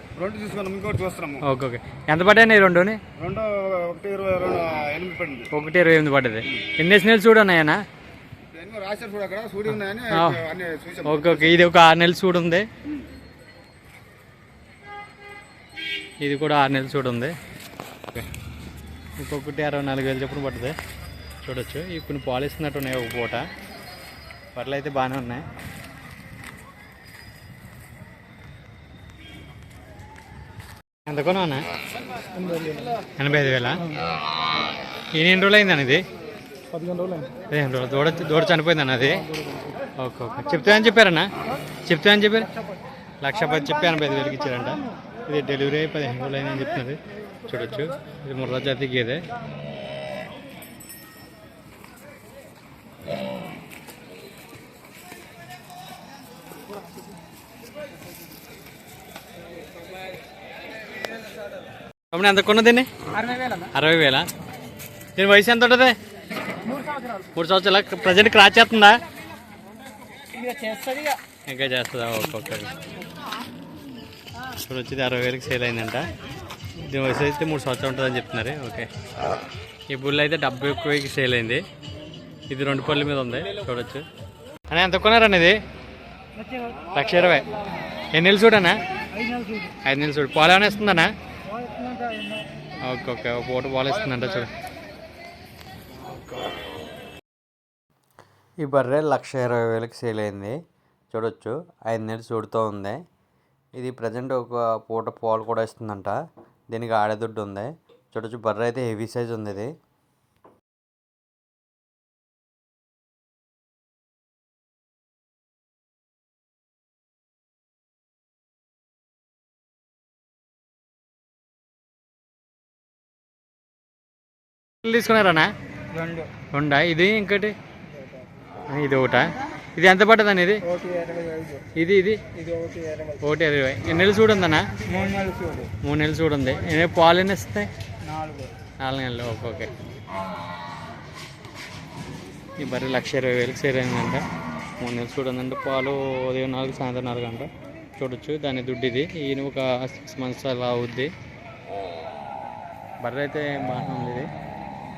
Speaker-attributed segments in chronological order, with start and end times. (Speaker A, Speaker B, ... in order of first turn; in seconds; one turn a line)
Speaker A: 0.1-1.4
Speaker B: 1.4-3.0
Speaker A: 3.2-5.5
Speaker B: 5.5-7.8
Speaker A: 8.5-11.6
Speaker B: 10.1-10.4
Speaker B: 11.0-12.7
Speaker B: 16.2-17.3
Speaker B: 19.2-20.8
Speaker B: 21.4-23.5
Speaker B: 24.5-25.4
Speaker B: 31.1-31.6
Speaker B: 33.1-33.9
Speaker B: 35.1-36.0
Speaker B: 37.5-39.3
Speaker B: 40.0-41.3
Speaker B: 41.8-42.5
Speaker B: 43.2-49.2
Speaker B: 62.1-62.9
Speaker B: 63.4-64.2
Speaker B: 65.2-66.0
Speaker B: 67.3-69.0
Speaker B: 71.5-72.7
Speaker B: 74.5-76.1
Speaker B: 76.8-78.9
Speaker B: 79.9-81.6
Speaker B: 82.5-84.0
Speaker B: 84.7-85.6
Speaker B: 86.9-87.5
Speaker B: 88.1-88.8
Speaker B: 89.7-91.1
Speaker B: 92.8-94.5
Speaker B: 98.6-100.5
Speaker B: 101.1-102.9
Speaker B: 103.8-106.1
Speaker B: 106.7-109.7
Speaker B: 124.8-125.5
Speaker B: 126.3-127.5
Speaker B: 128.7-130.7
Speaker A: 130.8-131.6
Speaker B: 131.7-132.3
Speaker A: 132.5-133.0
Speaker B: 133.2-134.7
Speaker A: 134.9-135.7
Speaker B: 135.8-137.7
Speaker B: 138.8-139.7
Speaker B: 142.6-144.2
Speaker B: 144.8-151.1
Speaker B: 153.0-154.3